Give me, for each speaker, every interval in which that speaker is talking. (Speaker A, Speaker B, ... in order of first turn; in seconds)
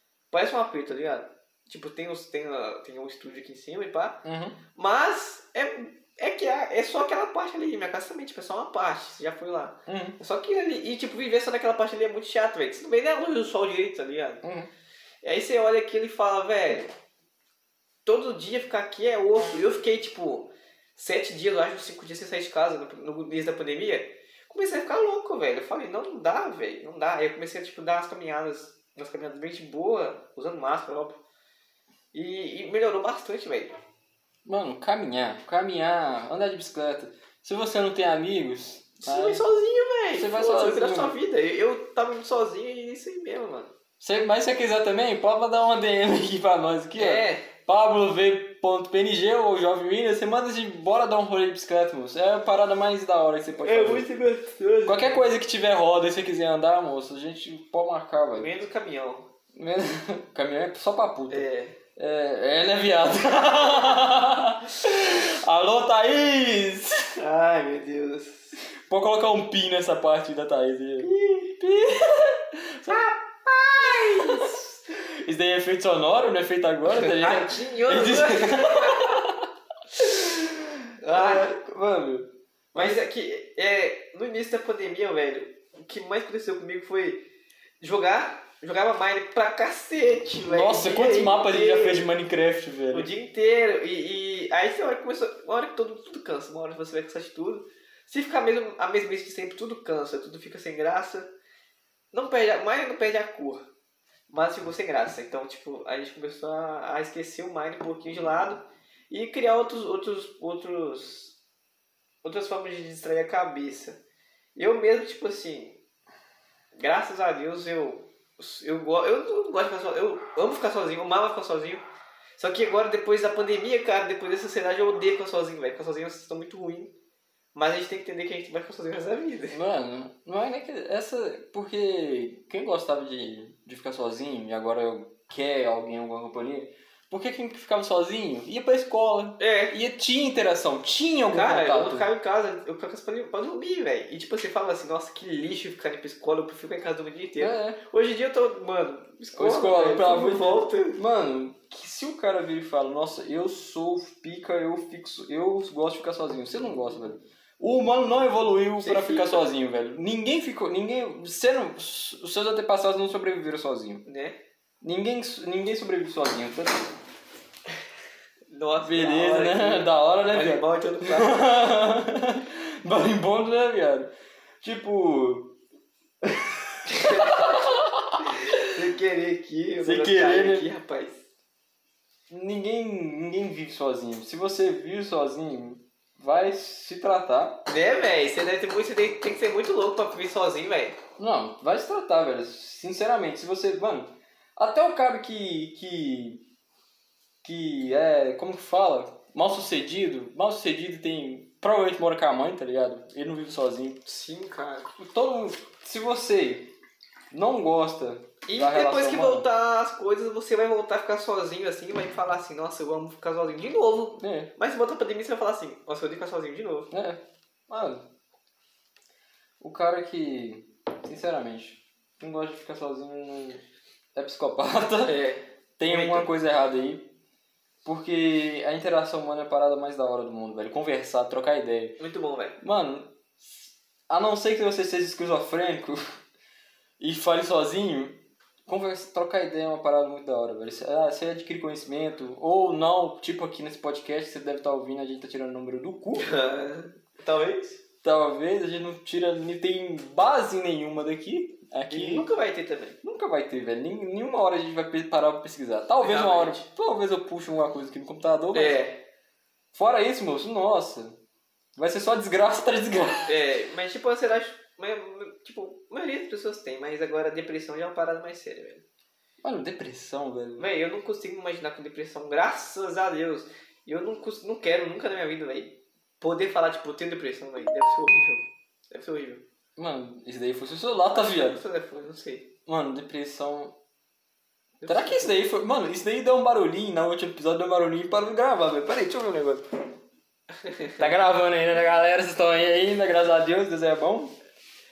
Speaker A: 0.3-4.2, 4.7-14.4, 15.2-16.9, 18.1-31.2, 32.1-33.7, 39.0-43.7, 47.0-47.5, 53.6-55.2, 58.4-59.3, 61.3-61.8, 67.2-68.6, 71.0-71.7, 72.9-74.7, 76.8-79.2, 81.0-81.5, 82.7-87.2, 87.8-92.1, 92.9-101.3, 102.1-103.7, 104.3-111.3, 112.2-114.0, 114.5-115.8, 116.7-121.8, 122.4-126.9, 127.5-129.6, 139.4-139.7, 141.3-151.0, 158.8-159.4, 164.0-164.4, 168.5-171.4, 176.8-177.6, 178.2-181.2, 187.7-191.0, 204.0-204.9, 208.4-216.9, 225.0-226.3, 232.0-232.6, 246.2-247.8, 251.9-253.0, 256.0-256.6, 258.5-259.0, 263.2-268.8, 270.6-279.4, 281.1-282.5, 284.8-285.3, 290.6-291.1
Speaker B: 4.2-4.6, 9.9-10.2, 14.4-14.7, 34.4-39.4, 40.1-41.1, 44.0-54.1, 54.8-58.5, 59.5-67.2, 68.9-71.1, 71.6-73.1, 73.8-83.0, 90.4-93.1, 129.5-142.1, 147.4-147.8, 149.3-164.0, 164.8-166.9, 168.8-175.6, 176.2-178.6, 179.8-180.7, 182.3-187.7, 191.2-196.4, 197.4-204.0, 205.0-206.7, 207.3-209.4, 214.2-214.5, 216.9-218.0, 219.6-223.6, 224.1-225.2, 225.8-227.1, 227.8-232.0, 232.6-236.0, 237.0-246.3, 248.0-252.3, 253.0-258.8, 259.7-261.2, 261.8-263.3, 269.4-270.7, 279.8-281.6, 282.6-283.8, 284.9-289.6, 291.0-294.3